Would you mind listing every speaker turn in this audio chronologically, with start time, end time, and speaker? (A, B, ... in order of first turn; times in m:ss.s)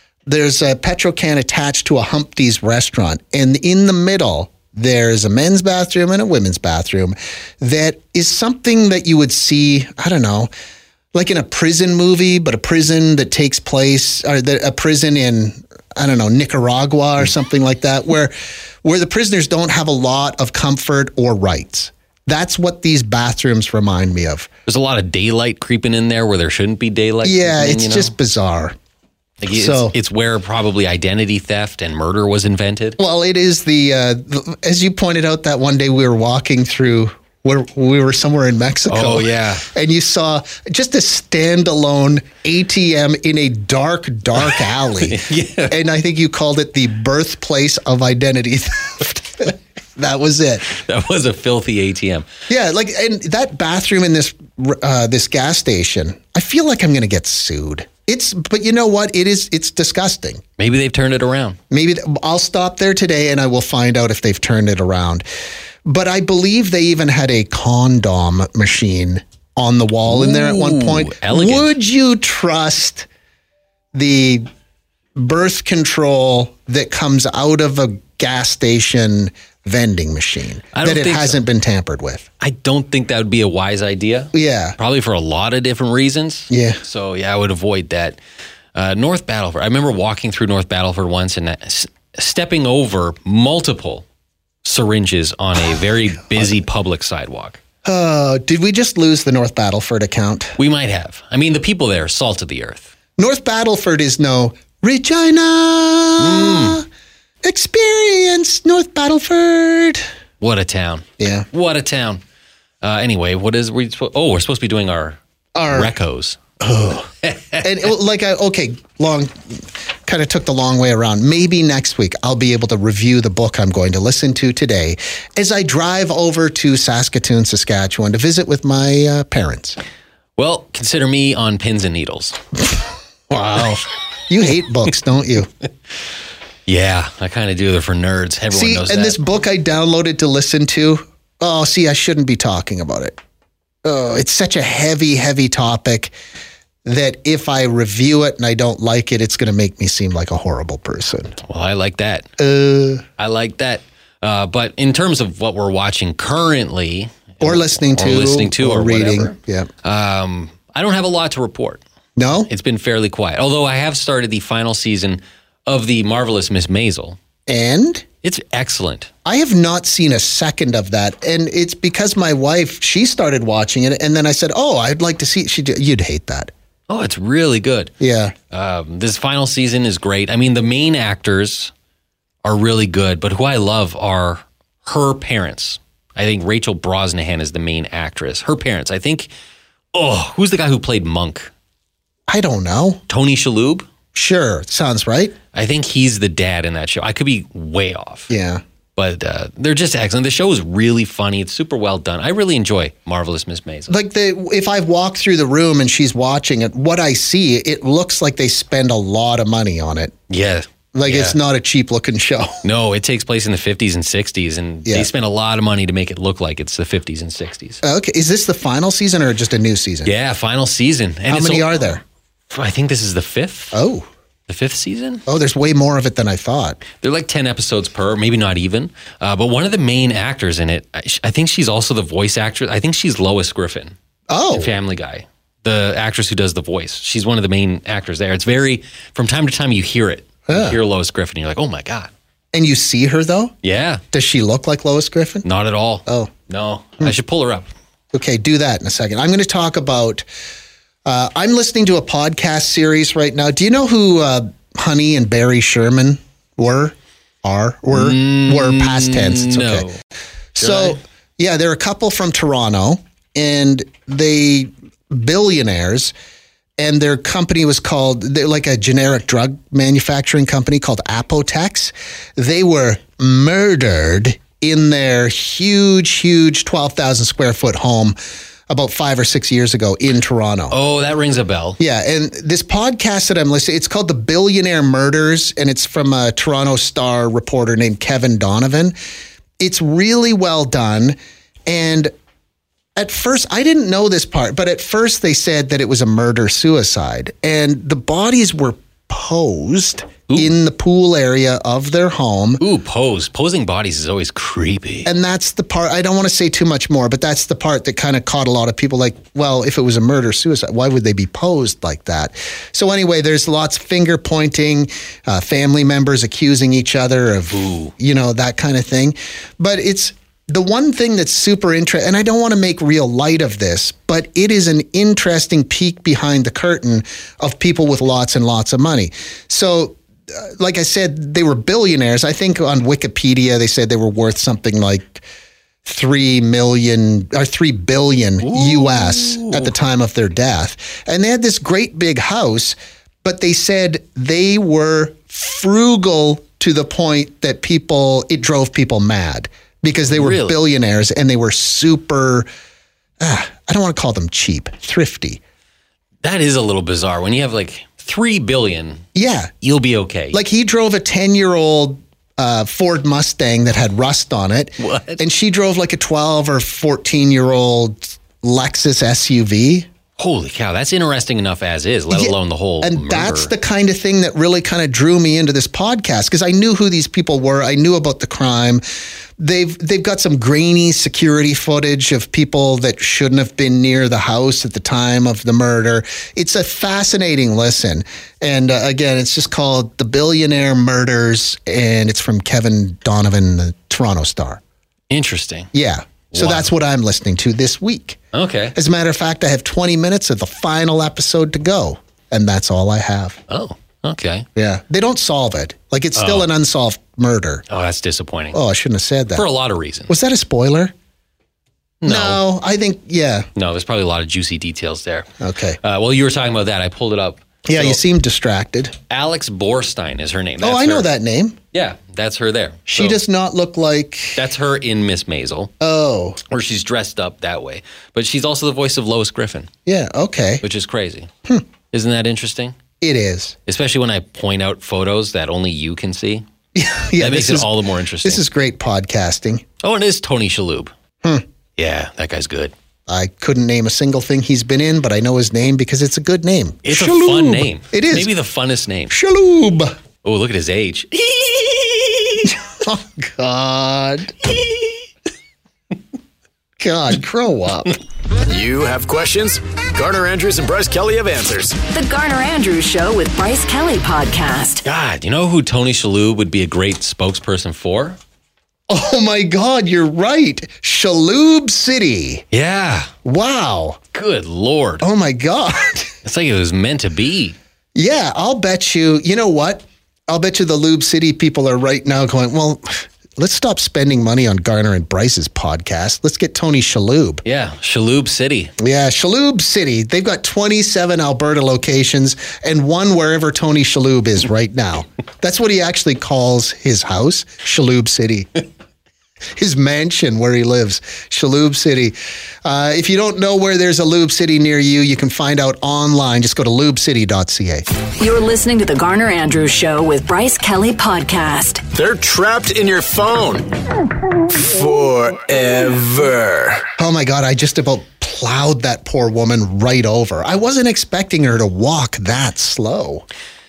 0:00.3-0:10.5 A
0:11.1-0:24.5 A
0:24.7-0:28.1 B
0:27.2-0:28.8 A
0:29.4-0:33.0 B
0:29.5-0:30.0 A
0:33.0-0:50.7 A
0:38.9-0:39.6 B
0:45.0-0:45.8 B
0:50.7-0:52.3 B
0:52.5-1:00.4 A
1:00.6-1:01.6 B
1:01.7-1:05.3 A
1:05.8-1:13.1 A
1:10.1-1:11.7 B
1:13.9-1:14.5 A
1:15.2-1:22.3 A
1:20.7-1:21.4 B
1:22.4-1:28.2 B
1:24.3-1:24.8 A
1:26.5-1:26.8 A
1:28.8-1:34.1 B
1:34.6-1:37.6 B
1:37.8-1:40.6 A
1:40.6-1:42.9 B
1:43.2-1:46.8 A
1:46.2-1:46.8 B
1:47.4-1:50.0 A
1:50.4-1:52.2 B
1:51.2-1:51.5 A
1:52.8-1:55.2 B
1:55.6-1:55.9 A
1:55.7-1:56.4 B
1:56.6-1:57.1 A
1:57.2-1:57.6 B
1:57.6-2:09.8 A
2:10.4-2:12.4 B
2:13.3-2:15.5 A
2:16.7-2:19.2 B
2:18.5-2:23.2 A
2:23.8-2:26.1 A
2:26.8-2:31.4 A
2:31.4-2:32.3 B
2:32.4-2:33.0 A
2:33.2-2:41.8 B
2:37.4-2:39.7 A
2:42.2-2:42.5 A
2:42.5-2:47.2 B
2:47.5-2:48.0 A
2:48.2-2:49.1 B
2:49.2-2:56.5 A
2:56.9-2:57.9 B
2:58.0-2:58.3 A
2:58.5-3:01.7 B
3:02.4-3:09.3 B
3:09.9-3:11.5 B
3:12.3-3:13.0 A
3:13.1-3:13.9 B
3:14.1-3:15.4 A
3:15.5-3:18.3 B
3:18.3-3:18.6 A
3:19.0-3:24.0 B
3:23.9-3:30.2 A
3:30.3-3:31.4 B
3:30.9-3:32.6 A
3:32.6-3:37.8 B
3:37.8-3:40.1 A
3:40.0-3:43.8 B
3:41.3-3:42.0 A
3:43.7-3:44.1 A
3:44.5-3:45.2 B
3:45.3-3:46.8 A
3:46.9-3:54.0 B
3:54.3-3:54.7 A
3:54.5-4:02.1 B
4:00.5-4:00.8 A
4:02.5-4:03.5 A
4:03.6-4:04.0 B
4:04.1-4:05.4 A
4:05.4-4:07.7 B
4:06.1-4:06.3 A
4:08.1-4:10.3 A
4:11.0-4:19.9 A
4:17.9-4:20.0 B
4:20.6-4:26.1 A
4:20.6-4:21.0 B
4:26.8-4:38.2 A
4:38.7-4:40.8 A
4:40.7-4:41.8 B
4:41.8-4:49.0 A
4:49.6-4:52.1 A
4:53.0-5:02.6 A
5:02.6-5:05.1 B
5:05.0-5:35.2 A
5:17.5-5:17.9 B
5:35.8-5:52.5 A
5:38.4-5:39.7 B
5:50.1-5:50.6 B
5:53.2-5:55.4 A
5:56.2-5:59.0 B
5:59.2-5:59.5 A
5:59.6-6:00.4 B
6:00.3-6:09.9 A
6:04.8-6:05.2 B
6:10.2-6:13.5 B
6:12.1-6:18.8 A
6:19.4-6:34.6 A
6:35.1-6:35.7 B
6:35.7-6:38.2 A
6:36.3-6:36.7 B
6:38.3-6:38.8 B
6:38.8-6:43.4 A
6:43.5-6:44.5 B
6:44.6-6:47.6 A
6:46.2-6:46.5 B
6:47.7-6:48.6 B
6:48.5-6:49.5 A
6:49.3-6:50.1 B
6:50.1-6:50.9 A
6:52.0-6:52.4 B
6:52.1-6:53.5 A
6:53.6-6:55.3 B
6:55.4-6:55.8 A
6:55.8-6:58.0 B
6:57.6-6:59.0 A
6:59.1-7:01.1 B
7:00.6-7:01.6 A
7:01.7-7:03.2 B
7:03.0-7:04.4 A
7:04.4-7:05.7 B
7:05.8-7:06.4 A
7:06.5-7:09.7 B
7:09.9-7:10.6 A
7:10.6-7:11.3 B
7:11.9-7:12.8 B
7:13.0-7:13.6 A
7:13.7-7:16.4 B
7:16.8-7:17.7 A
7:17.2-7:18.4 B
7:18.2-7:19.6 A
7:19.8-7:20.9 B
7:21.8-7:22.7 B
7:23.1-7:28.3 A
7:26.8-7:29.1 B
7:29.1-7:30.0 A
7:30.2-7:32.5 B
7:32.4-7:34.4 A
7:36.8-7:37.9 A
7:38.5-7:41.8 C
7:41.9-7:44.8 D
7:44.8-7:48.2 B
7:48.9-7:52.4 A
7:52.5-7:53.1 B
7:53.2-7:54.0 A
7:54.1-7:55.0 B
7:55.0-7:56.1 A
7:56.2-7:57.6 B
7:58.0-8:07.4 A
8:07.4-8:08.7 B
8:08.8-8:18.6 A
8:19.6-8:27.9 A
8:28.2-8:31.8 D
8:31.9-8:33.7 C
8:34.5-8:36.9 C
8:37.0-8:43.3 A